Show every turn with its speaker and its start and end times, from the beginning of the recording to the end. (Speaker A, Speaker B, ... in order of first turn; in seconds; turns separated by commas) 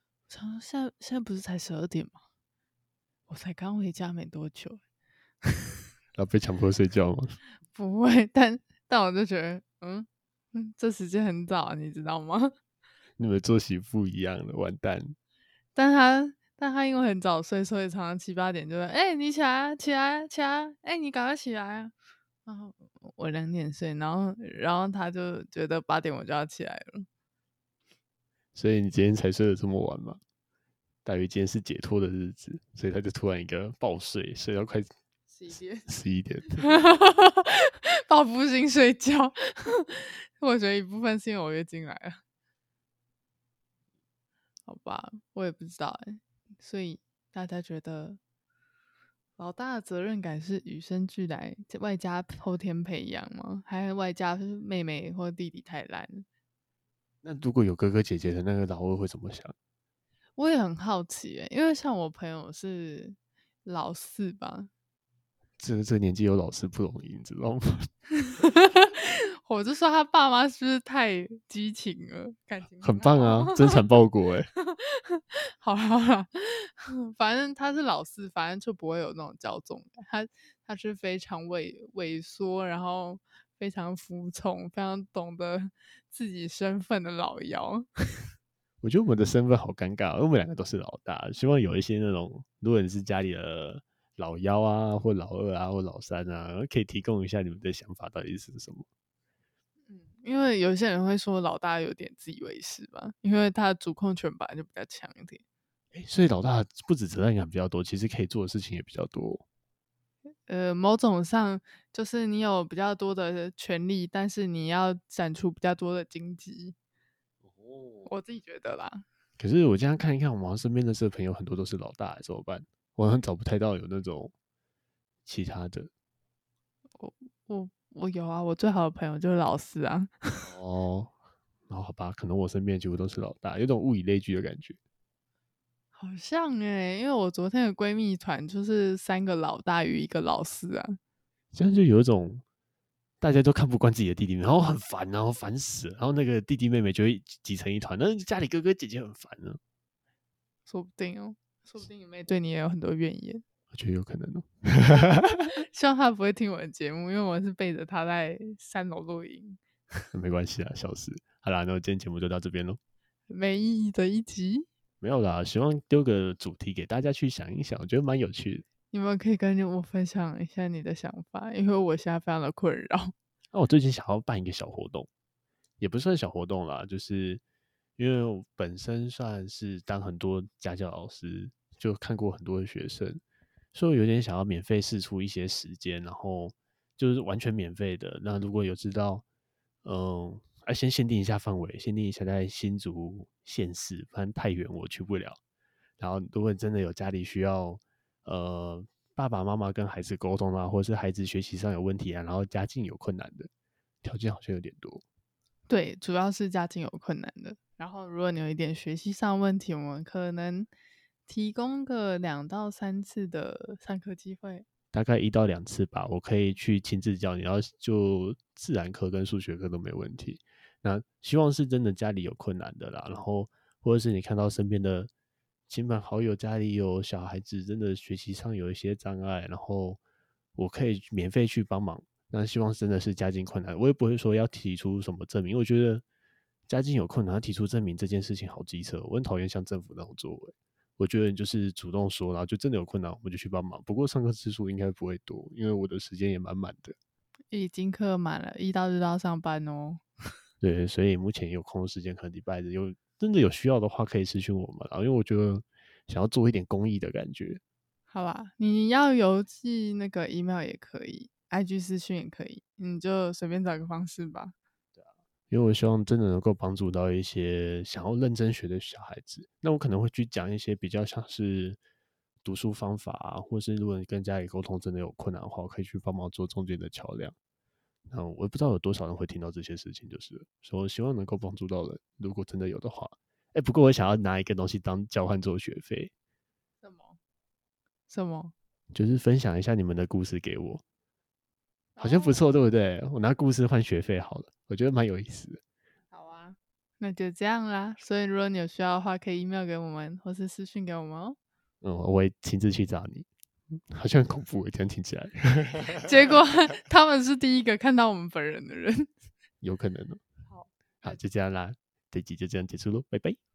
Speaker A: 0.3-2.2, Speaker A: 3.3-4.8, Speaker B: 6.2-7.4, Speaker A: 7.7-12.5, Speaker B: 13.2-15.2, Speaker A: 15.8-21.9, Speaker A: 22.5-27.1, Speaker B: 28.6-30.2, Speaker B: 31.1-34.9, Speaker A: 35.3-35.9, Speaker B: 35.9-36.7, Speaker A: 36.6-42.2, Speaker A: 44.7-48.2, Speaker A: 49.4-56.2, Speaker B: 57.2-59.5, Speaker A: 60.4-64.7, Speaker B: 65.6-67.9, Speaker A: 68.2-73.8, Speaker B: 72.8-74.5, Speaker A: 74.6-87.9, Speaker B: 88.8-98.9, Speaker A: 99.9-105.4, Speaker B: 105.9-109.4, Speaker A: 110.5-116.8, Speaker B: 117.5-118.1, Speaker A: 118.1-119.0, Speaker B: 119.4-124.3, Speaker B: 125.3-125.9, Speaker A: 127.0-130.5, Speaker B: 130.4-131.1, Speaker B: 131.7-134.8, Speaker A: 135.9-141.0, Speaker B: 141.5-142.4, Speaker B: 143.2-149.6, Speaker A: 150.7-153.4, Speaker B: 153.7-155.5, Speaker A: 155.5-159.6, Speaker B: 160.1-162.8, Speaker A: 163.3-164.7, Speaker B: 165.0-168.7, Speaker A: 168.9-173.1, Speaker B: 173.5-175.1, Speaker B: 175.8-177.4, Speaker B: 178.0-183.2, Speaker B: 183.7-189.2, Speaker B: 189.8-195.4, Speaker B: 196.0-203.5, Speaker B: 204.0-205.0, Speaker A: 205.7-210.7, Speaker A: 211.3-214.7, Speaker B: 214.9-225.1, Speaker B: 225.7-230.0, Speaker B: 230.6-236.0, Speaker B: 236.7-247.0, Speaker A: 247.5-250.0, Speaker B: 250.6-257.6, Speaker A: 258.1-264.6, Speaker B: 265.0-271.8, Speaker B: 272.4-277.4, Speaker B: 278.1-286.1, Speaker A: 286.8-287.2, Speaker A: 288.1-288.5, Speaker B: 288.9-290.8, Speaker A: 292.0-292.6, Speaker B: 292.0-295.6, Speaker A: 296.1-301.4, Speaker B: 301.8-306.1, Speaker A: 306.0-309.1, Speaker B: 309.6-310.2, Speaker A: 310.5-311.2, Speaker B: 311.0-313.4